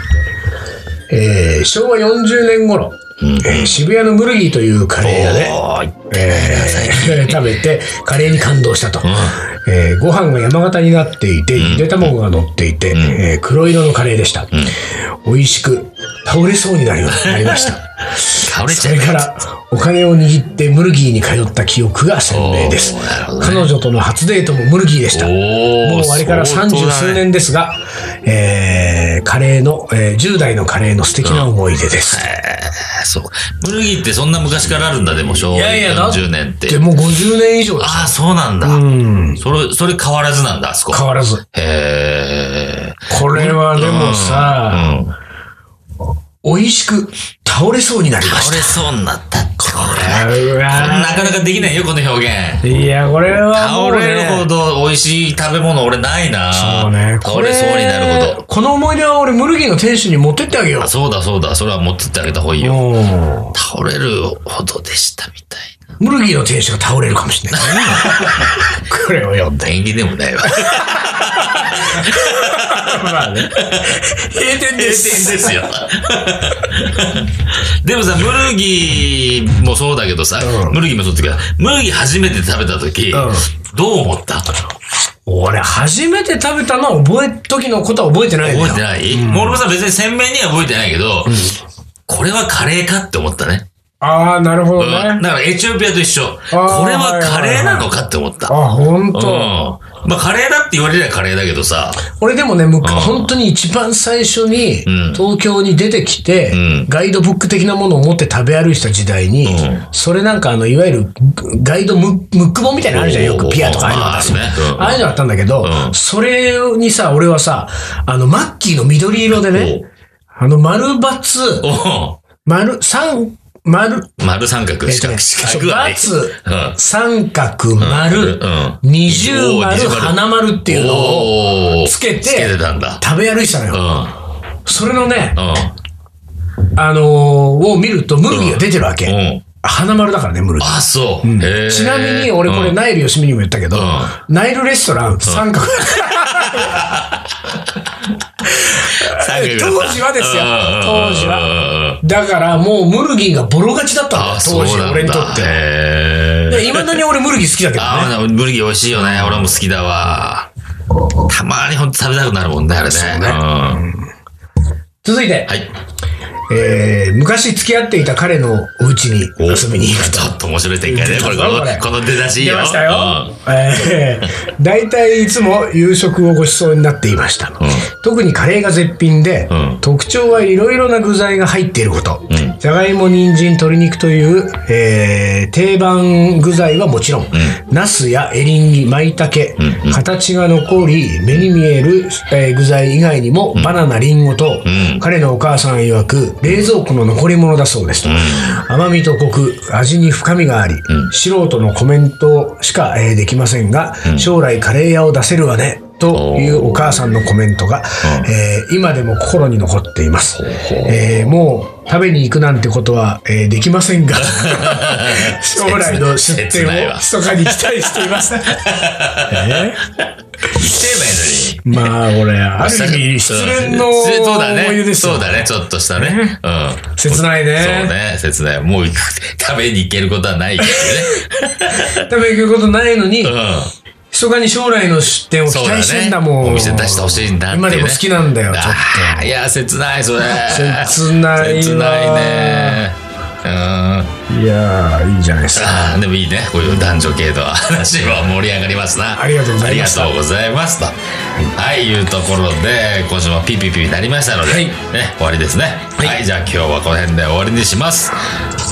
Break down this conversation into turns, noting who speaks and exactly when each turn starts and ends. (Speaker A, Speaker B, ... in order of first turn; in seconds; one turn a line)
Speaker A: 1.1-5.6
Speaker B: 3.2-3.8
Speaker B: 5.0-7.5
Speaker A: 6.1-14.5
Speaker B: 9.0-9.4
Speaker B: 11.6-12.2
Speaker B: 12.9-13.2
Speaker A: 15.2-32.3
Speaker B: 17.3-17.7
Speaker B: 18.4-19.3
Speaker B: 22.3-23.7
Speaker B: 25.1-27.2
Speaker B: 31.2-31.5
Speaker B: 32.0-36.9
Speaker A: 35.3-39.4
Speaker B: 37.8-38.8
Speaker B: 39.4-45.1
Speaker A: 40.9-41.4
Speaker A: 43.1-45.0
Speaker A: 46.4-48.8
Speaker B: 48.2-52.6
Speaker A: 49.6-51.7
Speaker A: 52.6-54.5
Speaker B: 53.3-58.4
Speaker A: 56.5-60.9
Speaker B: 60.8-62.9
Speaker A: 62.6-63.5
Speaker B: 63.5-65.8
Speaker A: 66.0-69.7
Speaker B: 67.5-68.6
Speaker B: 69.6-74.0
Speaker A: 70.4-75.7
Speaker B: 74.7-84.5
Speaker A: 80.4-80.8
Speaker A: 83.1-83.5
Speaker A: 85.3-89.6
Speaker B: 88.4-91.4
Speaker A: 91.3-91.6
Speaker B: 92.1-93.7
Speaker A: 94.0-95.2
Speaker B: 94.8-98.5
Speaker A: 96.5-97.9
Speaker A: 98.5-99.6
Speaker B: 99.1-102.0
Speaker A: 102.0-119.8
Speaker B: 102.8-103.3
Speaker B: 104.9-105.2
Speaker B: 106.5-106.9
Speaker B: 109.5-109.9
Speaker B: 112.9-115.1
Speaker B: 115.6-116.0
Speaker B: 119.3-119.9
Speaker A: 120.4-121.7
Speaker B: 121.6-122.2
Speaker A: 122.4-124.1
Speaker B: 124.2-126.8
Speaker A: 124.8-133.9
Speaker B: 127.8-133.0
Speaker B: 133.7-134.2
Speaker A: 134.7-135.4
Speaker B: 135.4-135.7
Speaker A: 136.8-146.8
Speaker B: 138.3-139.4
Speaker B: 140.6-142.8
Speaker B: 143.7-144.2
Speaker B: 146.0-152.0
Speaker A: 148.5-155.6
Speaker B: 154.1-157.0
Speaker A: 156.5-158.1
Speaker B: 157.8-160.5
Speaker B: 161.2-163.9
Speaker A: 162.9-164.0
Speaker A: 165.0-165.5
Speaker A: 166.5-219.8
Speaker B: 169.4-173.3
Speaker B: 177.6-177.9
Speaker B: 179.5-179.8
Speaker B: 182.3-182.6
Speaker B: 189.6-190.0
Speaker B: 194.7-195.1
Speaker B: 198.1-198.6
Speaker B: 204.1-204.3
Speaker B: 206.1-207.2
Speaker B: 208.0-208.3
Speaker B: 210.4-211.3
Speaker B: 214.2-221.9
Speaker A: 220.5-220.8
Speaker A: 221.6-225.4
Speaker B: 222.6-232.1
Speaker A: 226.0-226.4
Speaker A: 227.0-227.9
Speaker A: 230.6-233.3
Speaker B: 233.2-233.7
Speaker A: 234.1-239.3
Speaker B: 235.5-244.1
Speaker A: 240.4-242.8
Speaker A: 244.3-245.9
Speaker B: 245.5-250.9
Speaker A: 249.2-250.2
Speaker B: 251.5-258.2
Speaker A: 254.5-254.8